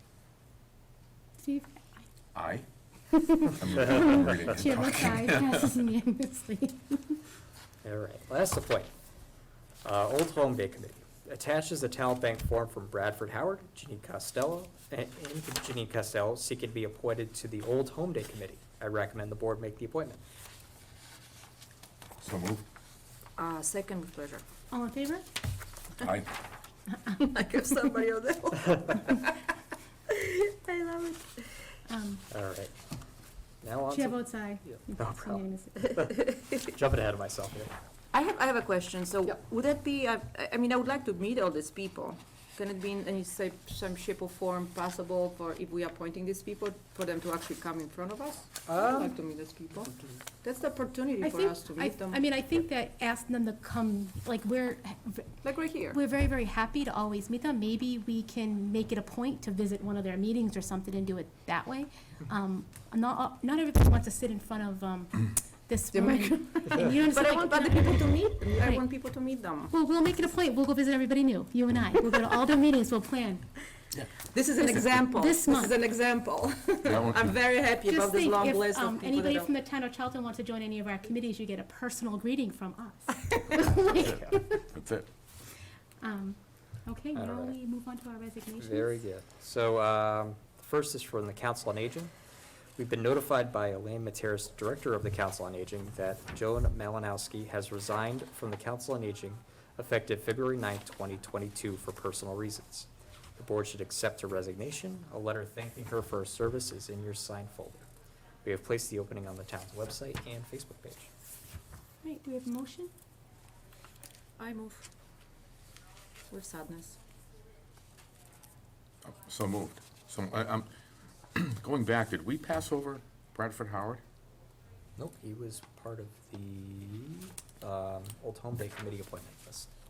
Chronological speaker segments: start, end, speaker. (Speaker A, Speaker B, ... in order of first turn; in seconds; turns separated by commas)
Speaker A: 1.4-2.1, Speaker B: 2.3-2.6, Speaker A: 3.1-7.2, Speaker B: 3.5-5.8, Speaker C: 7.8-8.9, Speaker C: 9.8-20.2, Speaker B: 22.2-22.6, Speaker D: 23.4-24.4, Speaker A: 24.7-25.2, Speaker B: 26.0-26.4, Speaker A: 26.9-27.1, Speaker D: 27.1-29.4, Speaker D: 30.1-31.7, Speaker A: 31.9-32.2, Speaker C: 32.3-32.7, Speaker C: 33.6-37.7, Speaker A: 33.9-36.0, Speaker D: 36.2-36.5, Speaker D: 38.1-52.2, Speaker C: 48.7-49.1, Speaker A: 51.2-68.9, Speaker D: 55.4-56.0, Speaker D: 65.9-69.7, Speaker A: 69.7-73.6, Speaker D: 74.3-79.5, Speaker A: 74.6-75.8, Speaker B: 76.8-77.4, Speaker A: 77.8-84.7, Speaker B: 84.7-85.1, Speaker A: 86.0-89.0, Speaker C: 87.1-87.6, Speaker C: 88.6-92.1, Speaker C: 92.8-107.8, Speaker C: 108.4-111.1, Speaker A: 112.0-112.9, Speaker D: 114.4-114.8, Speaker D: 116.3-117.0, Speaker B: 119.0-120.7, Speaker B: 121.3-124.0, Speaker C: 125.0-129.7